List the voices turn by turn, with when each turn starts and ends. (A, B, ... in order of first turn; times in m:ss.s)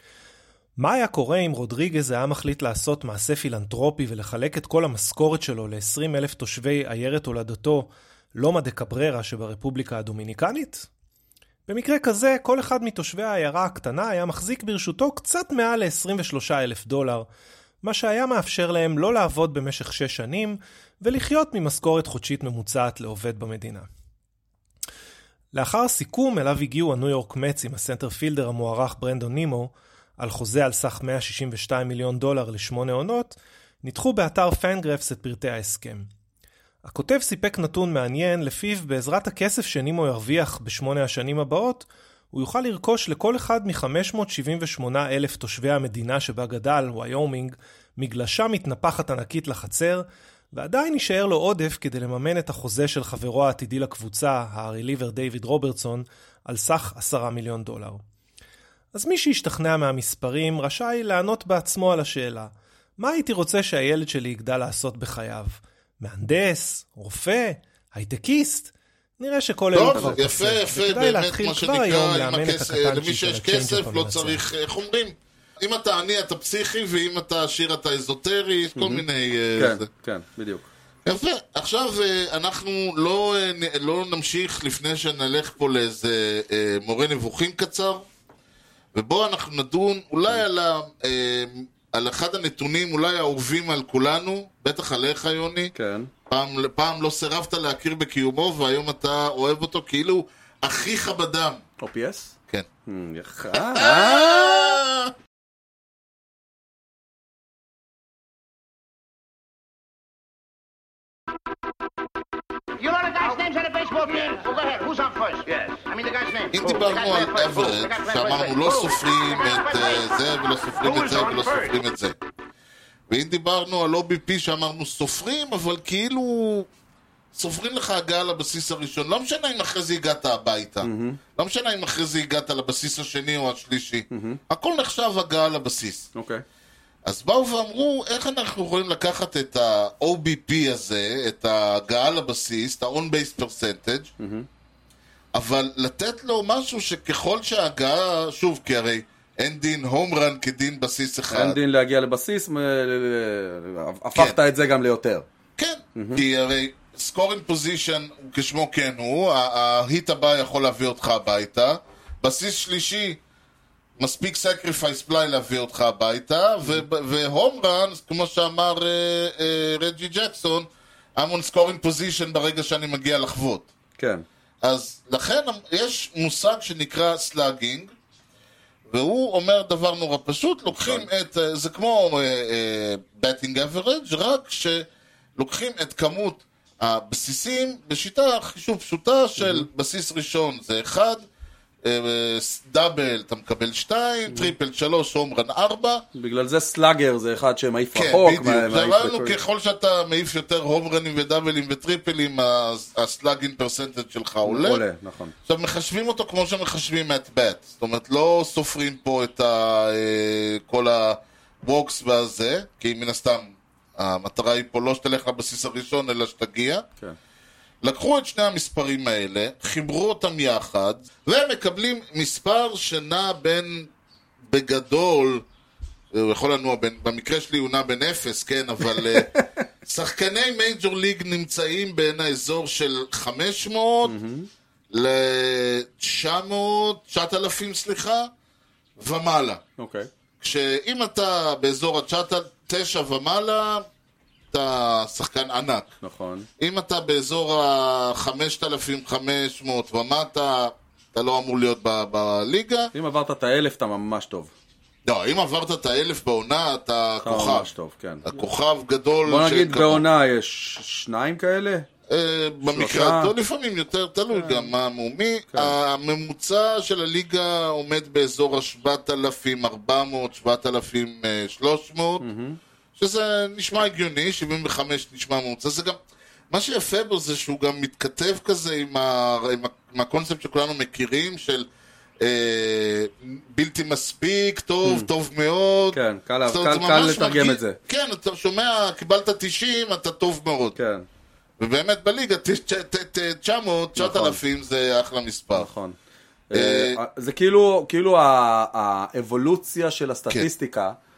0:00.8-0:10.9 A
0:11.7-0:17.3 A
0:17.8-0:23.9 A
0:25.5-0:36.1 A
0:36.8-0:58.0 A
0:58.9-1:14.4 A
1:09.7-1:19.8 B
1:18.7-1:19.0 C
1:19.6-1:20.7 C
1:21.0-1:28.0 B
1:28.9-1:35.7 B
1:35.7-1:36.1 C
1:36.3-1:41.6 B
1:41.8-1:42.3 C
1:42.8-1:44.8 C
1:43.5-1:45.1 B
1:52.8-2:00.1 D
1:56.5-2:02.1 B
2:00.8-2:01.7 D
2:03.1-2:06.7 B
2:07.3-2:16.1 B
2:10.8-2:11.2 C
2:14.1-2:14.4 C
2:16.1-2:16.4 C
2:17.0-2:24.1 B
2:24.2-2:24.5 C
2:25.3-2:31.6 B
2:31.3-2:35.2 C
2:35.6-2:43.2 B
2:36.0-2:36.2 C
2:44.0-2:53.7 B
2:54.0-2:54.2 C
2:54.6-2:57.9 B
2:58.9-3:04.8 B
3:00.7-3:01.1 C
3:05.4-3:11.2 B
3:09.4-3:09.6 C
3:11.8-3:16.0 B
3:16.1-3:19.4 C
3:17.9-3:24.8 B
3:24.4-3:25.3 C
3:25.4-3:36.8 B
3:37.8-3:43.9 B
3:44.4-3:45.4 B
3:46.1-3:49.3 B
3:49.8-3:54.2 B
3:54.0-3:54.5 C
3:54.9-3:58.3 B
3:59.0-3:59.6 B
3:59.8-4:00.1 C
4:00.4-4:03.8 B
4:04.5-4:05.9 B
4:06.0-4:06.5 C
4:06.6-4:12.9 B
4:12.9-4:14.5 C
4:15.0-4:17.7 B
4:17.2-4:18.3 C
4:18.3-4:20.0 B
4:19.2-4:21.9 C
4:22.1-4:32.2 B
4:22.6-4:23.3 C
4:24.3-4:24.7 C
4:32.2-4:32.6 C
4:33.0-4:36.0 B
4:36.5-4:41.6 B
4:42.2-4:50.8 B
4:44.8-4:45.1 C
4:45.9-4:47.8 C
4:50.8-4:51.0 C
4:51.6-4:55.7 B
4:54.0-4:54.4 C
4:55.5-4:56.0 C
4:56.5-5:01.0 C
4:56.5-4:57.0 B